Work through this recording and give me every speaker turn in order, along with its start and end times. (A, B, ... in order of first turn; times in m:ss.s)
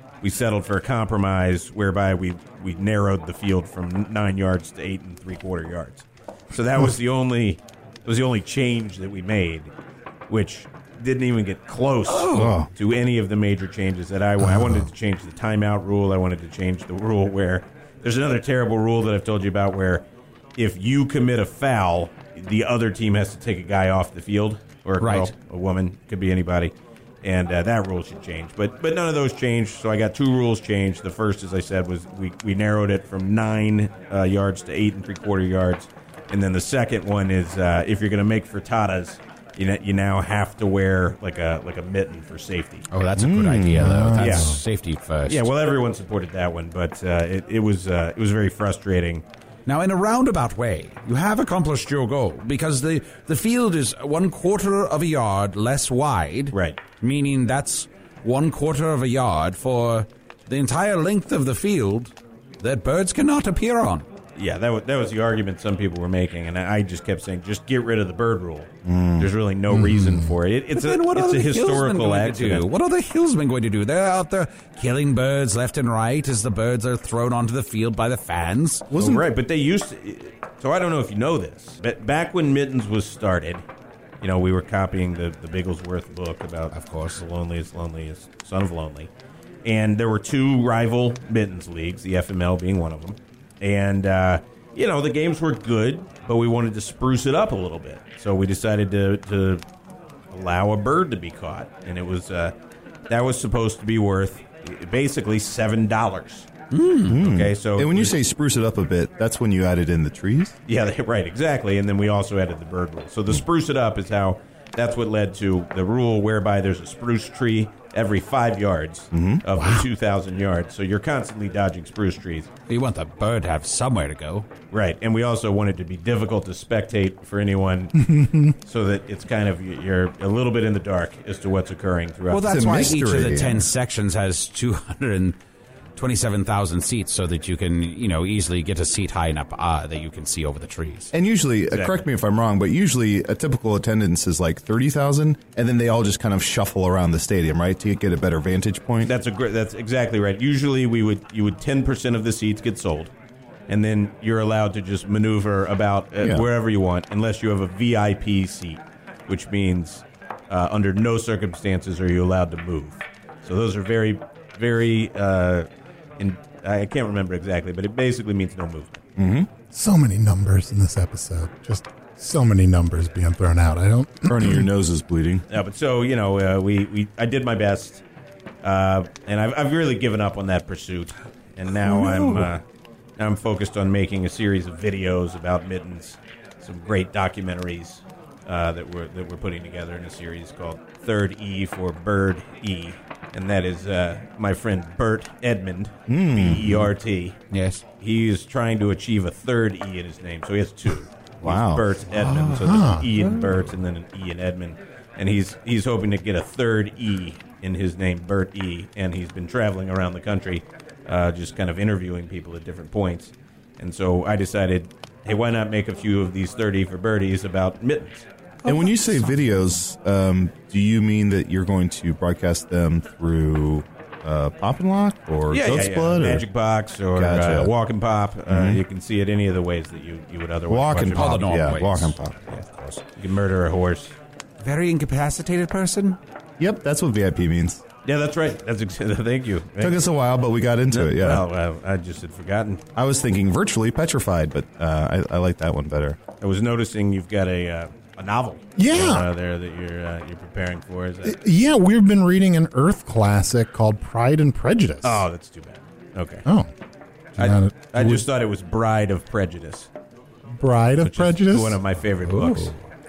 0:00.2-0:09.7 A
0:10.3-0:20.0 A
0:12.1-0:12.5 B
0:12.3-0:12.7 C
0:20.6-0:42.8 A
0:25.0-0:25.3 B
0:42.9-0:45.5 B
0:43.1-0:44.1 C
0:43.7-0:44.6 D
0:44.2-0:44.6 A
0:45.3-0:49.2 A
0:49.6-1:04.0 B
0:56.5-0:56.8 A
1:04.4-1:12.6 A
1:08.8-1:09.3 C
1:09.7-1:10.3 D
1:10.7-1:18.9 B
1:18.9-1:19.2 C
1:18.9-1:23.6 A
1:24.2-1:29.1 A
1:26.7-1:27.2 B
1:29.6-1:39.6 A
1:40.3-1:42.5 A
1:43.1-1:46.5 A
1:46.7-1:47.2 B
1:47.1-1:50.5 C
1:47.1-1:48.1 A
1:50.7-2:02.5 A
1:59.1-1:59.4 C
1:59.6-1:59.8 D
2:02.7-2:04.5 B
2:04.7-2:08.1 A
2:08.0-2:08.5 D
2:08.6-2:13.4 A
2:12.3-2:15.4 B
2:12.5-2:13.7 C
2:16.0-2:21.1 B
2:21.1-2:29.1 C
2:21.7-2:22.0 A
2:29.0-2:33.1 A
2:33.7-2:45.7 A
2:46.2-2:49.0 A
2:49.2-2:49.5 C
2:49.7-2:54.6 D
2:54.3-2:55.4 C
2:55.5-2:58.0 A
2:58.6-3:02.6 A
3:03.2-3:17.4 A
3:16.1-3:16.9 C
3:17.5-3:17.8 B
3:18.0-3:38.2 A
3:21.4-3:21.8 C
3:22.1-3:23.7 B
3:22.6-3:23.1 D
3:38.6-3:39.5 B
3:38.6-3:46.4 C
3:45.5-3:51.4 A
3:47.2-3:47.7 C
3:48.5-3:48.8 C
3:50.7-3:52.4 C
3:51.1-3:53.0 B
3:53.2-3:54.1 A
3:54.6-3:56.2 B
3:56.6-3:57.8 C
3:58.0-4:00.0 A
3:59.8-4:01.4 C
4:00.9-4:02.8 A
4:03.0-4:06.2 C
4:06.4-4:11.4 A
4:08.8-4:09.2 D
4:11.2-4:15.2 D
4:15.0-4:16.4 A
4:17.4-4:18.2 D
4:17.4-4:19.9 A
4:20.6-4:21.8 D
4:21.0-4:22.7 A
4:22.2-4:22.8 B